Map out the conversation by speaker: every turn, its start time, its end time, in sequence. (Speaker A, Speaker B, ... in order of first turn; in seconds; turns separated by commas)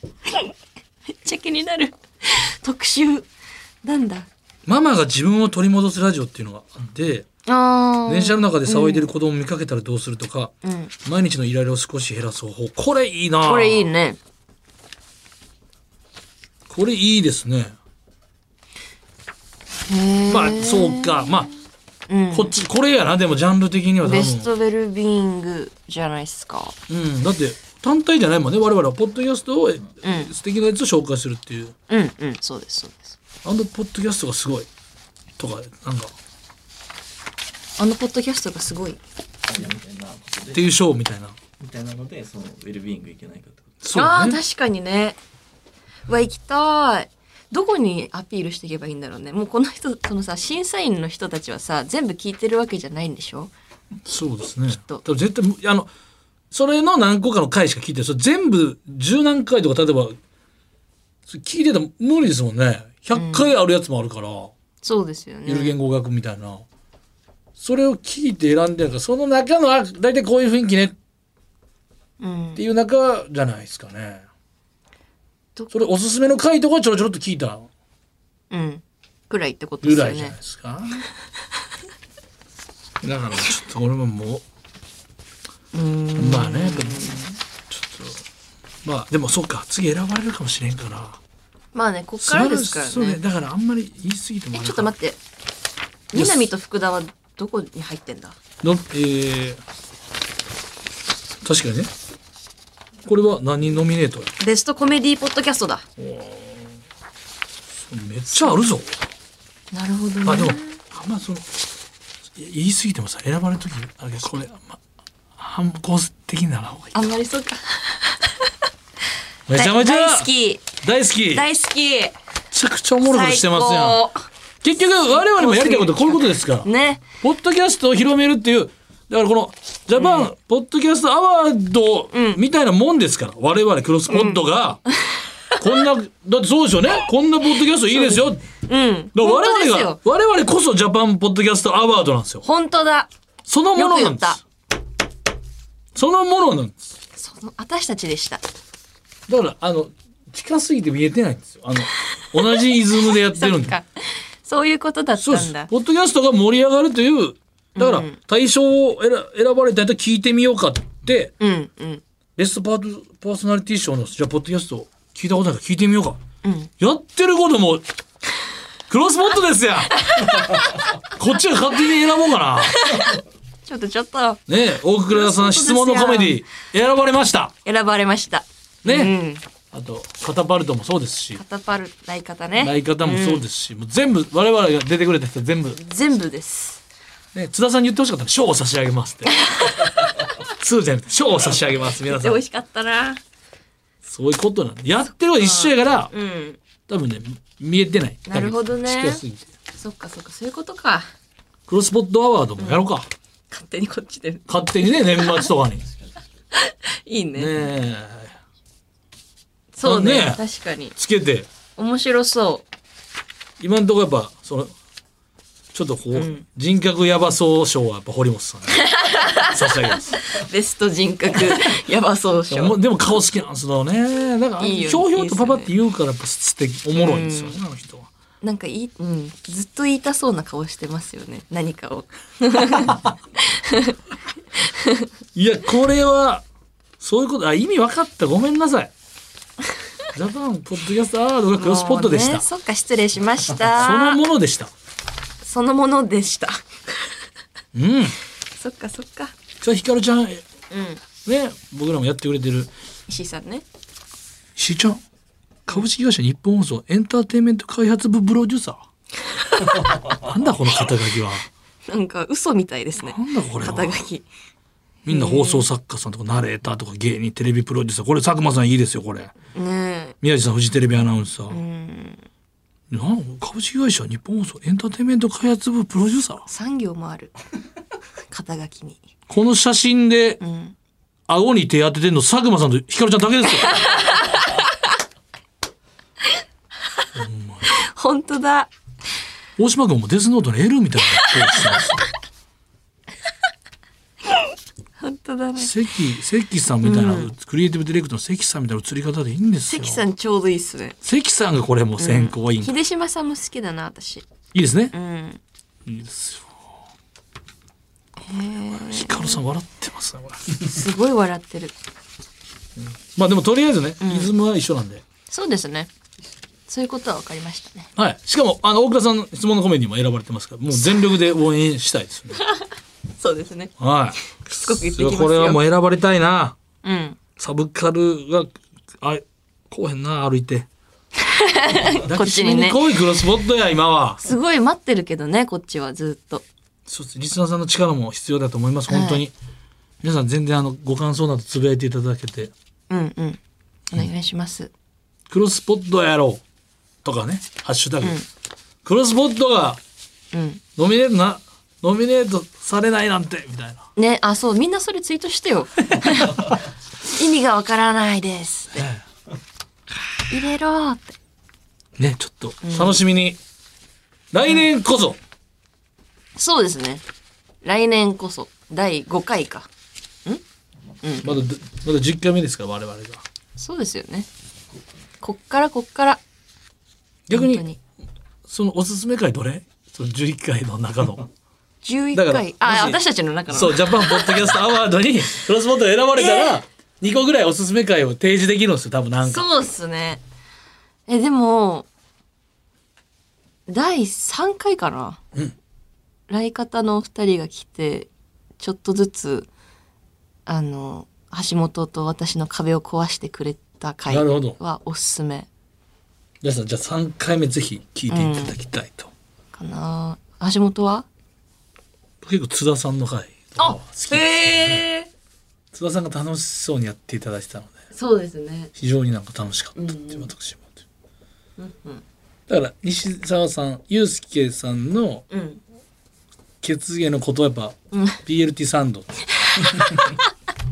Speaker A: 1.2-3.3, Speaker A: 3.8-4.3, Speaker B: 4.7-7.3, Speaker A: 7.5-9.1, Speaker B: 8.1-10.5, Speaker A: 10.6-10.9, Speaker B: 11.1-13.9, Speaker A: 13.4-14.2, Speaker B: 16.7-17.8, Speaker A: 19.9-21.4, Speaker B: 20.3-21.5, Speaker A: 22.1-22.6, Speaker B: 22.3-24.5, Speaker A: 24.0-26.8, Speaker B: 26.9-31.7, Speaker A: 30.0-30.3, Speaker A: 31.9-33.2, Speaker B: 33.4-34.7, Speaker B: 35.4-36.1, Speaker A: 37.8-39.0, Speaker C: 39.5-40.6, Speaker B: 40.5-41.4, Speaker C: 41.6-43.6, Speaker B: 43.8-44.4, Speaker A: 43.9-45.2, Speaker A: 46.1-53.5, Speaker B: 54.1-55.9, Speaker A: 54.7-55.0, Speaker B: 56.5-60.2, Speaker B: 61.3-64.5, Speaker A: 63.1-63.5, Speaker A: 64.8-65.8, Speaker B: 65.5-66.6, Speaker B: 67.6-71.0, Speaker A: 72.2-72.6, Speaker B: 72.6-74.3, Speaker B: 75.7-77.7, Speaker A: 78.5-80.4, Speaker B: 79.8-81.0, Speaker B: 83.0-84.4, Speaker A: 85.7-87.2, Speaker B: 86.2-88.2, Speaker B: 88.8-91.2, Speaker A: 91.7-93.2, Speaker B: 92.2-94.9, Speaker A: 94.5-95.2, Speaker A: 96.1-98.4, Speaker B: 96.1-96.4, Speaker B: 98.6-99.6, Speaker B: 101.4-101.9, Speaker B: 103.0-104.3, Speaker A: 104.4-105.8, Speaker B: 106.0-106.8, Speaker B: 107.9-109.0, Speaker A: 108.3-108.6, Speaker A: 109.7-110.8, Speaker B: 110.2-111.5, Speaker B: 112.4-114.8, Speaker B: 115.4-117.0, Speaker A: 116.9-118.5, Speaker B: 119.5-120.3, Speaker A: 119.5-122.2, Speaker B: 120.8-121.5, Speaker B: 122.5-124.1, Speaker A: 123.0-124.2, Speaker B: 124.6-126.7, Speaker A: 125.1-127.1, Speaker B: 127.2-134.8, Speaker A: 130.0-130.3, Speaker A: 132.1-132.4, Speaker A: 134.1-134.4, Speaker B: 135.6-138.4, Speaker A: 137.7-140.0, Speaker B: 139.1-142.4, Speaker A: 142.4-143.1, Speaker B: 143.5-144.4, Speaker A: 143.8-144.4, Speaker B: 145.9-146.9, Speaker A: 147.2-148.4, Speaker B: 149.3-153.8, Speaker A: 151.9-155.7, Speaker B: 155.2-161.3, Speaker A: 157.8-158.2, Speaker A: 161.4-162.0, Speaker B: 162.4-166.2, Speaker A: 166.4-166.7, Speaker B: 166.8-167.8, Speaker B: 168.9-170.3, Speaker A: 170.0-170.6, Speaker B: 171.1-172.8, Speaker A: 172.7-174.4, Speaker B: 174.5-177.5, Speaker A: 175.1-176.4, Speaker A: 177.7-179.4, Speaker B: 178.8-179.1, Speaker B: 179.7-181.4, Speaker A: 181.3-183.4, Speaker B: 182.6-185.8, Speaker A: 185.7-186.8, Speaker B: 187.3-189.4, Speaker A: 189.4-190.3, Speaker B: 190.4-192.4, Speaker A: 192.1-193.2, Speaker B: 194.1-196.1, Speaker A: 195.4-196.6, Speaker B: 196.9-199.5, Speaker A: 198.3-199.2, Speaker A: 199.7-201.1, Speaker B: 201.7-203.1, Speaker A: 202.6-202.9, Speaker A: 203.5-205.5, Speaker B: 204.5-205.9, Speaker A: 206.5-207.6, Speaker B: 207.3-208.3, Speaker A: 209.7-210.9, Speaker B: 209.8-210.4, Speaker B: 211.0-211.5, Speaker A: 211.8-212.7, Speaker B: 213.6-214.7, Speaker B: 215.7-218.8, Speaker A: 216.1-216.4, Speaker A: 218.7-222.8, Speaker B: 219.4-220.2, Speaker B: 222.5-228.1, Speaker A: 224.6-225.7, Speaker A: 226.9-227.6, Speaker A: 228.4-234.0, Speaker A: 234.6-235.1, Speaker B: 235.3-236.4, Speaker B: 237.0-238.9, Speaker B: 240.1-242.4, Speaker A: 241.6-244.2, Speaker B: 243.6-244.7, Speaker A: 245.4-247.1, Speaker B: 247.7-248.2, Speaker A: 248.6-249.3, Speaker B: 249.6-250.4, Speaker A: 250.7-251.0, Speaker B: 251.2-252.7, Speaker A: 253.1-253.6, Speaker B: 254.6-255.0, Speaker B: 255.7-258.8, Speaker A: 259.4-259.9, Speaker B: 260.1-261.5, Speaker A: 261.9-264.3, Speaker B: 263.0-264.0, Speaker B: 265.1-269.3, Speaker A: 265.1-265.7, Speaker A: 269.6-270.2, Speaker B: 270.2-271.6, Speaker A: 271.5-272.2, Speaker B: 272.9-276.5, Speaker A: 276.5-277.3, Speaker A: 278.3-279.0, Speaker B: 279.3-280.4, Speaker A: 280.4-280.8, Speaker B: 281.3-283.7, Speaker A: 283.6-284.6, Speaker B: 287.1-287.7, Speaker A: 287.7-288.7, Speaker B: 289.6-292.0, Speaker A: 295.0-295.7, Speaker B: 295.6-300.1, Speaker A: 296.8-297.3, Speaker A: 299.7-301.0, Speaker B: 301.0-302.7, Speaker A: 302.0-304.2, Speaker B: 304.5-304.9, Speaker A: 304.9-305.4, Speaker B: 305.9-306.6, Speaker A: 308.2-309.4, Speaker B: 308.7-310.6, Speaker A: 310.6-311.8, Speaker B: 312.8-315.0, Speaker A: 314.0-314.3, Speaker A: 315.3-315.9, Speaker A: 316.7-317.9, Speaker B: 318.0-322.4, Speaker A: 322.3-322.7, Speaker A: 323.2-323.7, Speaker B: 323.8-326.6, Speaker A: 324.2-325.6, Speaker A: 326.8-327.2, Speaker B: 327.4-330.7, Speaker A: 331.3-333.0, Speaker B: 332.0-334.2, Speaker A: 334.2-336.4, Speaker B: 336.9-339.3, Speaker A: 338.9-339.2, Speaker B: 340.0-342.5, Speaker A: 342.9-343.4, Speaker A: 343.9-344.7, Speaker B: 345.3-346.4, Speaker B: 347.0-348.2, Speaker A: 348.0-348.3, Speaker B: 348.8-349.8, Speaker A: 350.3-350.6, Speaker B: 350.8-353.9, Speaker A: 354.0-358.9, Speaker B: 355.9-356.5, Speaker B: 358.7-359.1, Speaker A: 360.3-361.1, Speaker B: 362.0-363.4, Speaker A: 362.6-363.0, Speaker B: 364.3-365.2, Speaker A: 366.4-367.0, Speaker A: 367.6-369.7, Speaker A: 371.0-371.4, Speaker B: 371.2-373.2, Speaker A: 373.6-374.3, Speaker A: 375.2-376.2, Speaker B: 377.3-377.6, Speaker A: 377.3-377.8, Speaker B: 378.5-381.3, Speaker A: 381.8-384.6, Speaker B: 382.1-389.5, Speaker A: 386.1-386.6, Speaker A: 389.2-390.2, Speaker A: 391.1-391.9, Speaker A: 393.7-395.2, Speaker A: 396.3-399.5, Speaker A: 400.5-405.5, Speaker B: 404.1-404.6, Speaker B: 406.4-409.1, Speaker A: 408.1-408.6, Speaker A: 409.5-411.1, Speaker B: 412.2-414.9, Speaker A: 413.6-415.1, Speaker B: 415.7-417.8, Speaker A: 417.9-418.7, Speaker B: 418.8-420.8, Speaker A: 419.8-420.3, Speaker A: 421.6-422.0, Speaker B: 422.5-425.3, Speaker A: 425.3-425.6, Speaker B: 426.6-429.1, Speaker A: 427.9-428.2, Speaker A: 429.6-430.2